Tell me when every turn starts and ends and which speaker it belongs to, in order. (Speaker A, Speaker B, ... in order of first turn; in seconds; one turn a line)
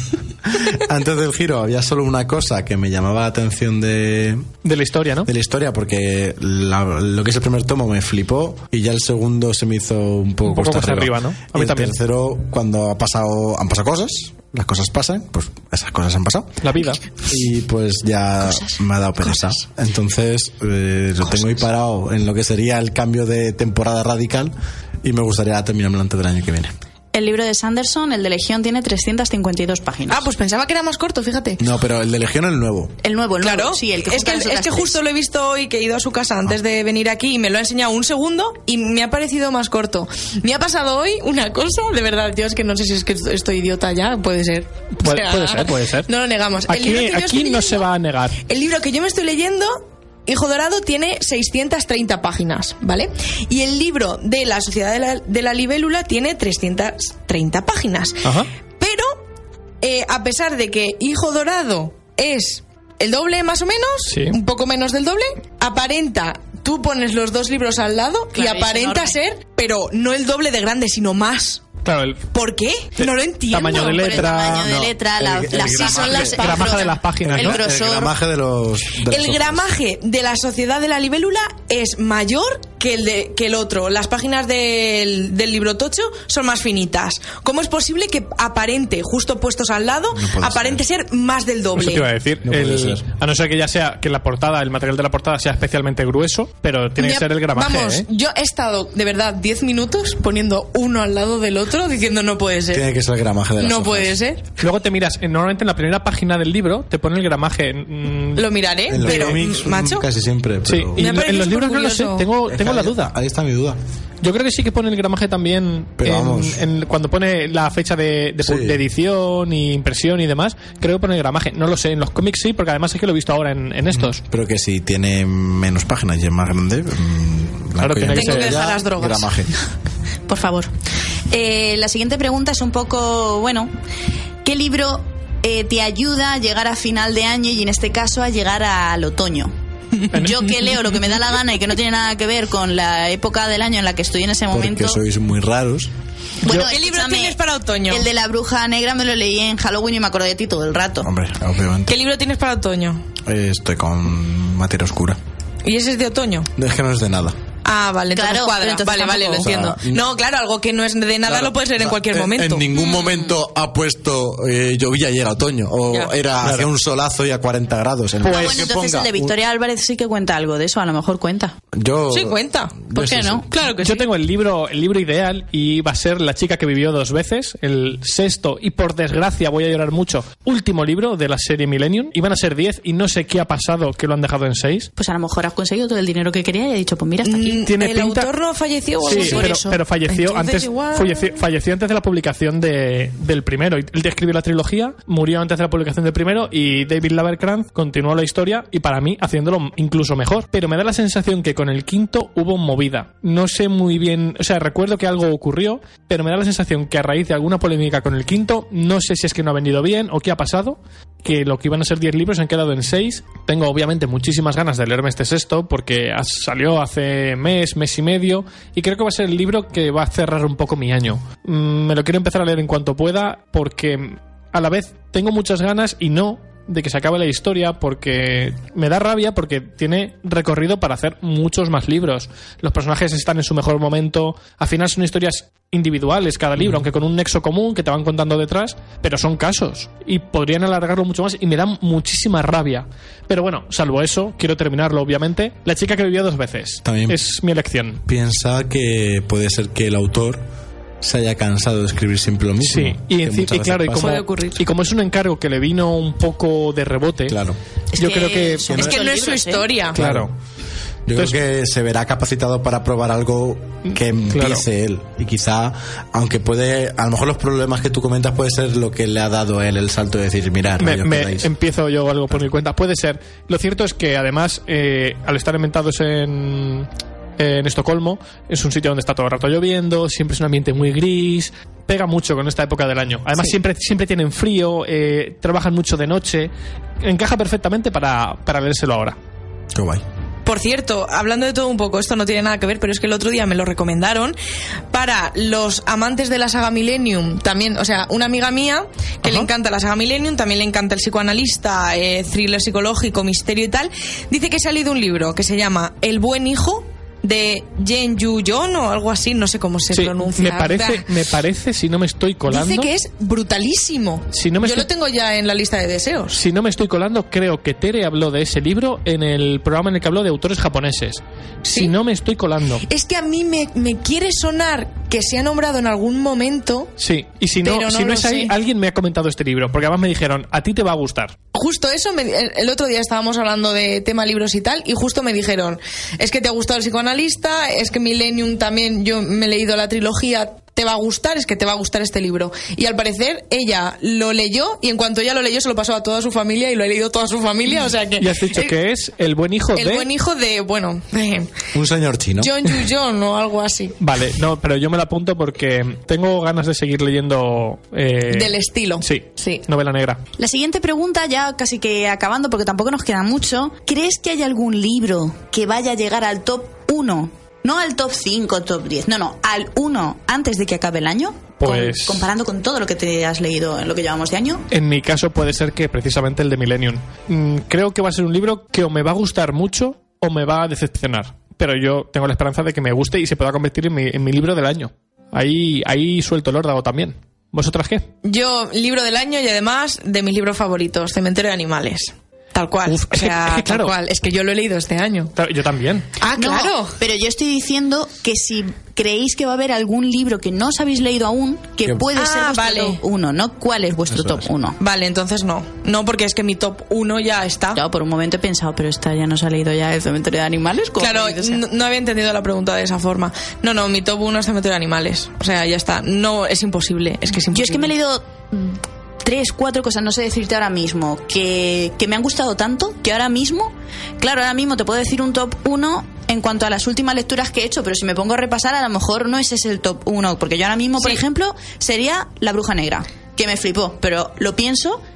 Speaker A: 0.4-4.5
Speaker B: 4.6-5.3
Speaker A: 5.2-16.6
Speaker B: 10.4-11.9
Speaker B: 16.6-17.0
Speaker A: 17.2-26.7
Speaker C: 27.1-30.3
Speaker D: 30.1-31.6
Speaker A: 31.6-32.9
Speaker C: 33.0-35.0
Speaker D: 33.4-47.9
Speaker B: 44.9-46.1
Speaker B: 46.7-48.4
Speaker D: 48.5-59.2
Speaker B: 58.2-58.5
Speaker D: 59.8-71.7
Speaker B: 64.1-64.4
Speaker C: 68.3-69.1
Speaker B: 71.8-72.2
Speaker D: 72.3-74.3
Speaker B: 73.0-74.7
Speaker C: 73.6-78.1
Speaker A: 74.4-76.7
Speaker D: 75.5-76.9
Speaker B: 76.1-77.6
Speaker A: 77.2-79.7
Speaker D: 79.0-92.1
Speaker A: 90.1-90.8
Speaker B: 91.8-98.0
Speaker A: 92.4-93.0
Speaker D: 97.0-102.8
Speaker A: 102.7-104.2
Speaker D: 103.6-104.4
Speaker B: 104.6-108.5
Speaker D: 108.3-110.0
Speaker A: 108.9-111.1
Speaker B: 109.0-109.3
Speaker B: 110.7-113.1
Speaker D: 111.0-112.3
Speaker A: 112.5-113.8
Speaker B: 114.2-124.2
Speaker A: 116.0-116.6
Speaker A: 118.4-118.8
Speaker A: 123.9-129.5
Speaker B: 127.8-128.6
Speaker D: 128.1-129.3
Speaker C: 130.3-130.7
Speaker C: 131.3-133.7
Speaker C: 134.4-139.5
Speaker C: 140.1-145.0
Speaker B: 140.1-140.4
Speaker A: 144.5-145.9
Speaker C: 146.4-147.3
Speaker D: 146.4-148.1
Speaker C: 147.9-151.1
Speaker A: 151.0-152.0
Speaker D: 151.9-153.0
Speaker A: 153.2-155.2
Speaker D: 155.6-156.5
Speaker A: 156.6-157.4
Speaker D: 157.6-162.7
Speaker C: 158.1-159.5
Speaker A: 159.4-160.1
Speaker A: 161.3-169.3
Speaker C: 162.7-163.3
Speaker B: 166.4-166.7
Speaker C: 168.2-171.6
Speaker A: 171.7-173.5
Speaker D: 172.1-172.9
Speaker C: 172.9-173.4
Speaker D: 173.5-174.1
Speaker B: 173.8-184.9
Speaker C: 184.9-187.6
Speaker D: 187.2-191.4
Speaker B: 187.6-188.3
Speaker C: 189.0-189.8
Speaker B: 189.0-248.0
Speaker A: 246.8-247.2
Speaker A: 248.1-250.4
Speaker A: 251.0-254.2
Speaker B: 252.6-257.4
Speaker D: 254.0-254.6
Speaker A: 257.3-257.6
Speaker C: 257.9-259.7
Speaker B: 258.0-258.9
Speaker D: 258.7-260.0
Speaker B: 259.9-260.3
Speaker A: 259.9-260.3
Speaker A: 261.1-271.5
Speaker B: 264.3-264.6
Speaker B: 270.8-289.2
Speaker A: 289.7-290.0
Speaker D: 290.4-294.4
Speaker D: 294.9-311.1
Speaker B: 309.9-312.9
Speaker D: 312.5-316.4
Speaker B: 314.3-314.9
Speaker B: 316.3-322.9
Speaker D: 321.6-321.9
Speaker D: 322.9-326.9
Speaker B: 327.0-331.3
Speaker D: 327.6-328.5
Speaker D: 331.5-348.7
Speaker B: 348.2-350.1
Speaker D: 349.7-351.5
Speaker A: 351.7-352.6
Speaker D: 352.4-354.0
Speaker B: 354.0-360.2
Speaker D: 358.3-359.6
Speaker C: 360.4-374.6
Speaker B: 371.6-372.3
Speaker B: 374.7-388.1
Speaker D: 388.2-395.3
Speaker B: 392.9-393.9
Speaker B: 395.4-396.1
Speaker D: 396.2-397.0
Speaker C: 396.4-404.8
Speaker D: 402.1-403.0
Speaker A: 404.1-404.5
Speaker D: 404.8-407.8
Speaker C: 407.7-411.6
Speaker D: 411.0-417.9
Speaker C: 417.5-435.0